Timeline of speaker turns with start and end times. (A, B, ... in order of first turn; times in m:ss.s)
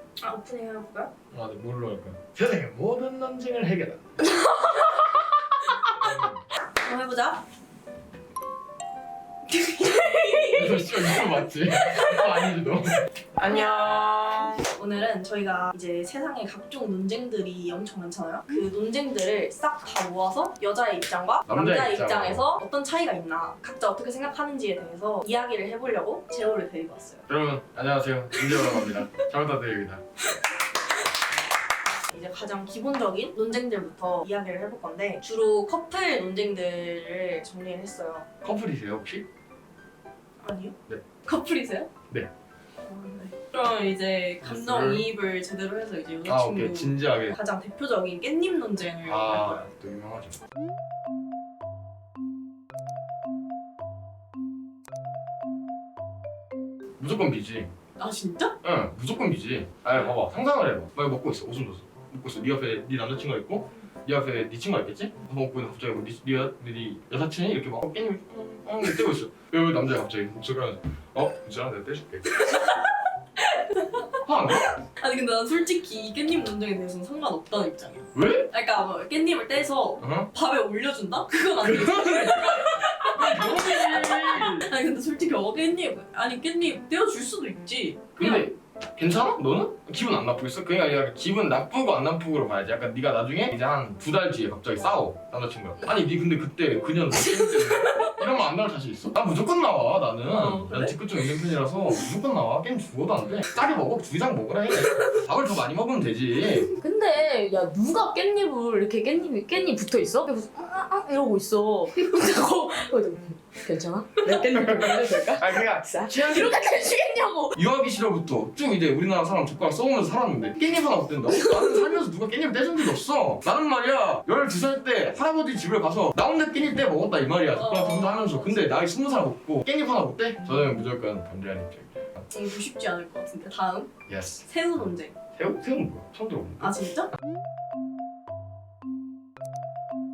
0:00.2-0:01.1 A
0:01.3-0:04.1 B
0:04.3-0:05.2 C
0:06.0-0:06.4 B
0:06.8-0:07.4 A
0:09.5-0:10.4 A
0:09.8-0:12.3 C
0:10.5-0:13.8 B
0:13.4-0:27.2 A
0:13.5-0:14.6 C
0:21.5-0:22.4 B
0:27.3-0:30.0 B
0:28.4-0:29.0 A
0:32.1-0:38.2 A
0:38.4-0:39.3 B
0:40.4-0:41.9 A
0:42.8-0:49.7 A
0:44.4-0:45.0 B
0:46.2-0:47.4 B
0:49.0-0:50.4 B
0:57.0-0:57.7 B
0:58.0-0:58.5 A
0:58.6-1:12.4 B
1:12.4-1:28.5 A
1:14.2-1:14.7 B
1:18.1-1:18.5 B
1:20.0-1:20.3 B
1:21.6-1:24.7 B
1:28.2-1:46.7 B
1:37.2-1:38.2 A
1:40.3-1:41.0 A
1:44.8-1:45.1 A
1:46.8-1:57.6 C
1:54.4-1:56.6 B
1:57.5-2:12.2 B
2:07.5-2:08.8 A
2:12.3-2:13.9 A
2:14.1-2:14.5 B
2:14.4-2:15.2 A
2:15.4-2:16.8 B
2:16.6-2:17.1 A